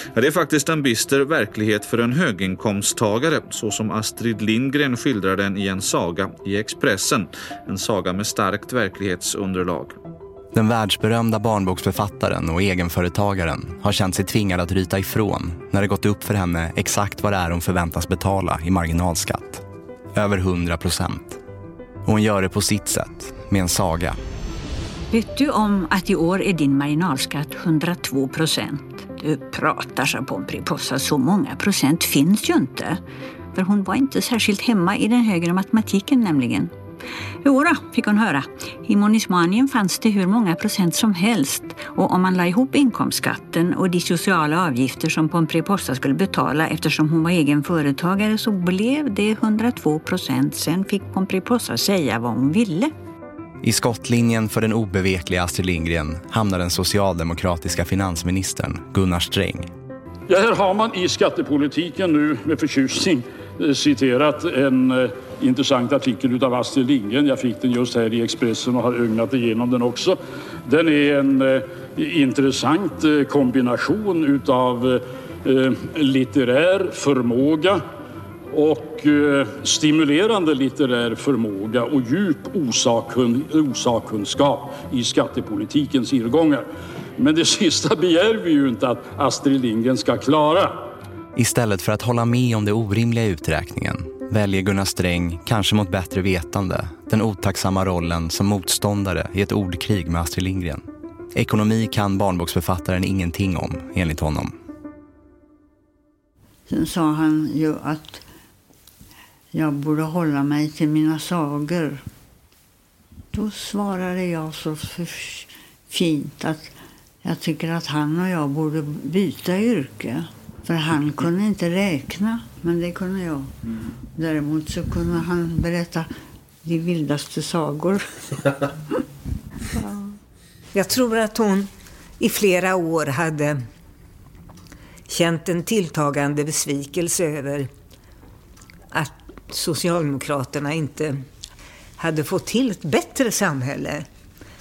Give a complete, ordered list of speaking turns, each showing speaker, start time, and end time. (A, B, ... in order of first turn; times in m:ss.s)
0:00.1-0:10.0 A
0:10.5-0:21.4 B
0:22.0-0:24.2 B
0:25.1-0:33.0 C
0:33.5-0:36.7 C
0:37.4-0:52.9 C
0:53.6-0:59.7 B
1:00.3-1:17.8 D
1:18.5-1:26.6 D
1:27.2-1:30.7 D
1:31.3-1:44.6 B
1:46.7-1:48.2 E
1:49.5-1:52.0 E
1:53.3-1:56.7 E
1:57.2-2:03.5 E
2:04.1-2:06.1 E
2:06.6-2:08.4 E
2:10.7-2:13.6 F
2:15.1-2:17.7 F
2:18.9-2:21.2 F
2:22.0-2:24.0 F